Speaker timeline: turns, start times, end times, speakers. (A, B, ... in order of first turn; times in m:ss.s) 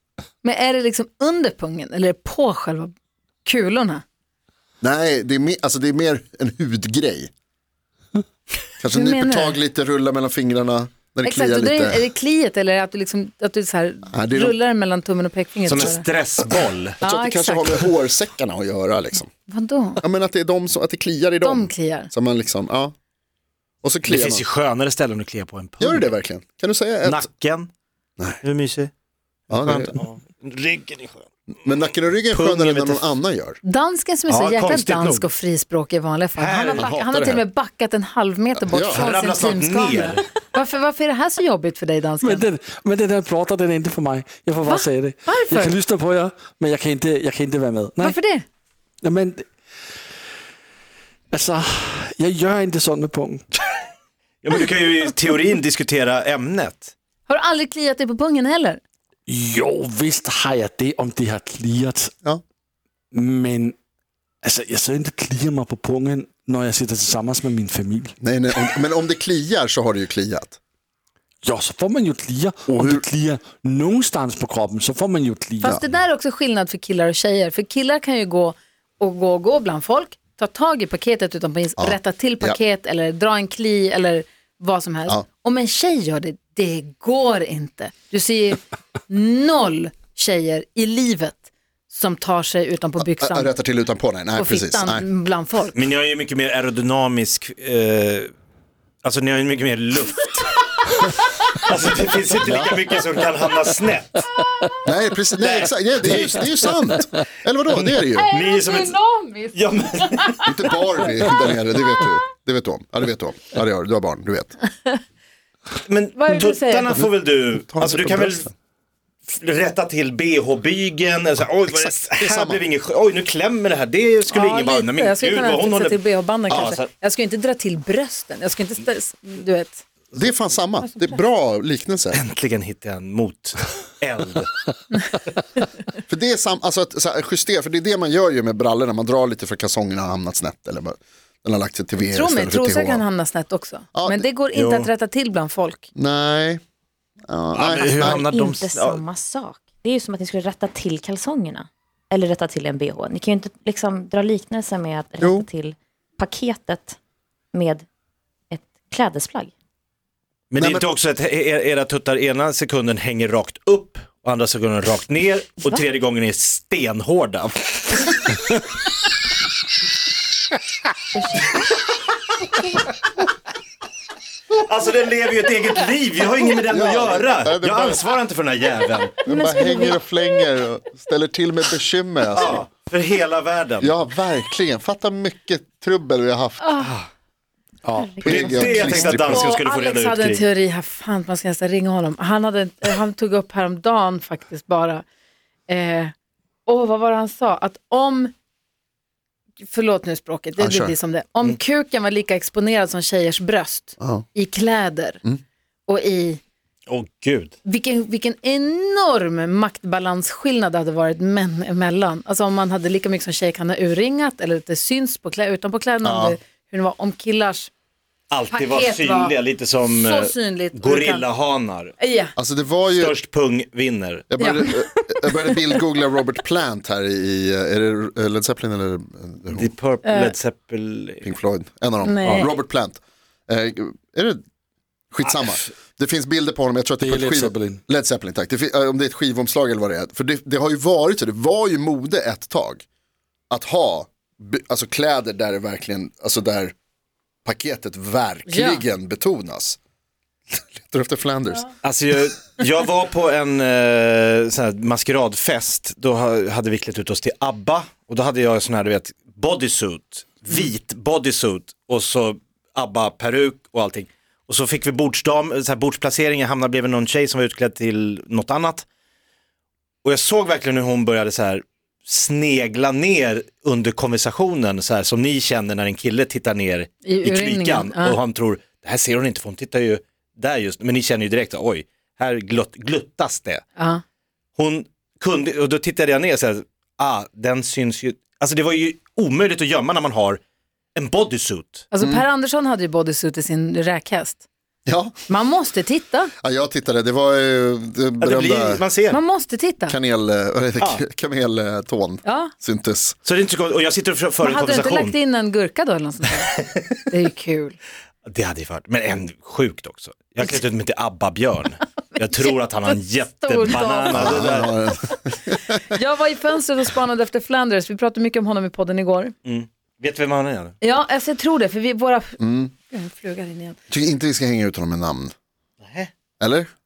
0:00.4-0:02.9 A
0:03.4-0:04.0 A
0:04.8-0:07.3 B
0:08.8-0:12.1 B
0:08.9-0:09.6 A
0:11.2-0:16.0 A
0:14.1-0:14.6 B
0:15.7-0:17.0 C
0:16.5-0:19.3 B
0:17.0-0:17.9 A
0:19.5-0:20.0 A
0:20.0-0:22.9 B
0:21.4-0:22.1 A
0:23.8-0:24.4 B
0:24.1-0:26.1 C
0:25.8-0:27.3 B
0:27.0-0:27.7 C
0:28.4-0:28.9 C
0:29.5-0:31.3 C
0:29.5-0:30.0 B
0:31.6-0:33.6 B
0:32.3-0:33.1 C
0:33.6-0:42.5 A
0:34.3-0:35.3 C
0:36.4-0:36.9 C
0:36.8-0:37.4 B
0:38.6-0:39.1 B
0:38.9-0:40.2 C
0:42.2-0:48.2 D
0:44.6-0:45.8 A
0:48.0-0:48.4 A
0:49.0-0:49.5 D
0:51.3-0:53.4 D
0:54.4-0:56.9 C
0:57.3-0:58.8 A
0:59.3-1:02.1 D
1:03.1-1:03.8 D
1:04.4-1:08.2 D
1:08.2-1:10.6 B
1:11.4-1:15.7 D
1:12.7-1:13.0 B
1:15.6-1:33.5 A
1:21.8-1:22.6 B
1:33.0-1:35.0 B
1:34.4-1:35.8 A
1:35.7-1:38.3 C
1:39.0-1:44.3 C
1:42.4-1:42.8 B
1:44.8-1:48.3 B
1:45.4-1:46.7 C
1:47.7-1:49.0 C
1:48.2-1:50.5 A
1:49.5-1:50.5 C
1:50.5-1:54.6 B
1:55.9-1:58.5 C
1:56.2-1:57.0 A
1:57.6-1:58.5 B
1:59.3-2:06.9 C
2:01.7-2:02.6 B
2:04.3-2:09.8 A
2:06.5-2:06.8 B
2:10.2-2:12.2 B
2:12.1-2:14.5 C
2:16.1-2:23.0 B
2:22.0-2:25.9 A
2:24.0-2:24.3 B
2:24.6-2:24.9 C
2:26.0-2:26.6 B
2:27.3-2:28.2 B
2:27.6-2:29.0 C
2:28.0-2:37.0 E
2:35.2-2:35.5 B
2:37.5-2:37.8 E
2:38.5-2:39.5 E
2:40.5-2:48.5 C
2:40.6-2:40.9 B
2:51.1-2:51.7 E
2:54.5-2:59.2 C
2:56.7-2:58.0 B
2:59.3-3:00.0 E
2:59.3-3:02.7 B
3:02.3-3:04.0 C
3:03.8-3:06.9 B
3:06.6-3:06.9 A
3:07.8-3:08.8 D
3:08.0-3:09.0 E
3:08.2-3:09.6 B
3:08.2-3:10.4 C
3:09.2-3:15.0 A
3:15.7-3:16.1 A
3:16.7-3:18.3 A
3:19.6-3:25.2 A
3:20.6-3:21.0 B
3:24.0-3:24.2 B
3:25.9-3:26.4 A
3:26.9-3:27.6 C
3:27.6-3:37.7 A
3:36.0-3:36.4 B
3:38.3-3:41.9 C
3:38.5-3:41.3 A
3:42.0-3:42.3 A
3:42.4-3:43.2 B
3:42.9-3:44.3 C
3:44.3-3:49.7 B
3:44.4-3:45.8 A
3:49.5-3:51.3 C
3:50.0-3:50.4 A
3:51.2-3:54.4 B
3:52.0-3:52.5 A
3:52.2-3:52.5 C
3:55.1-4:02.8 B
3:55.3-3:55.6 C
3:57.0-3:57.8 D
4:03.5-4:06.8 B
4:07.4-4:09.8 B
4:08.5-4:08.8 A
4:10.5-4:11.7 B
4:11.8-4:28.9 C
4:30.0-4:43.6 C
4:37.0-4:38.2 A
4:43.8-4:44.0 A
4:44.6-4:50.4 C
4:51.0-4:51.8 C
4:51.9-4:54.4 A
4:54.9-4:55.2 B
4:55.3-4:56.3 A
4:56.4-4:58.8 B
4:58.2-4:59.2 C
4:59.1-5:00.0 A
4:59.9-5:03.2 B
5:02.2-5:02.5 A
5:03.2-5:05.2 C
5:04.4-5:06.5 A
5:07.1-5:07.8 A
5:08.3-5:14.9 C
5:12.4-5:14.2 A
5:14.1-5:15.8 B
5:15.9-5:19.4 A
5:19.4-5:20.8 C
5:20.8-5:22.4 A
5:22.4-5:22.7 B
5:22.9-5:23.8 A
5:23.9-5:25.3 B
5:25.8-5:26.1 C
5:26.4-5:26.7 B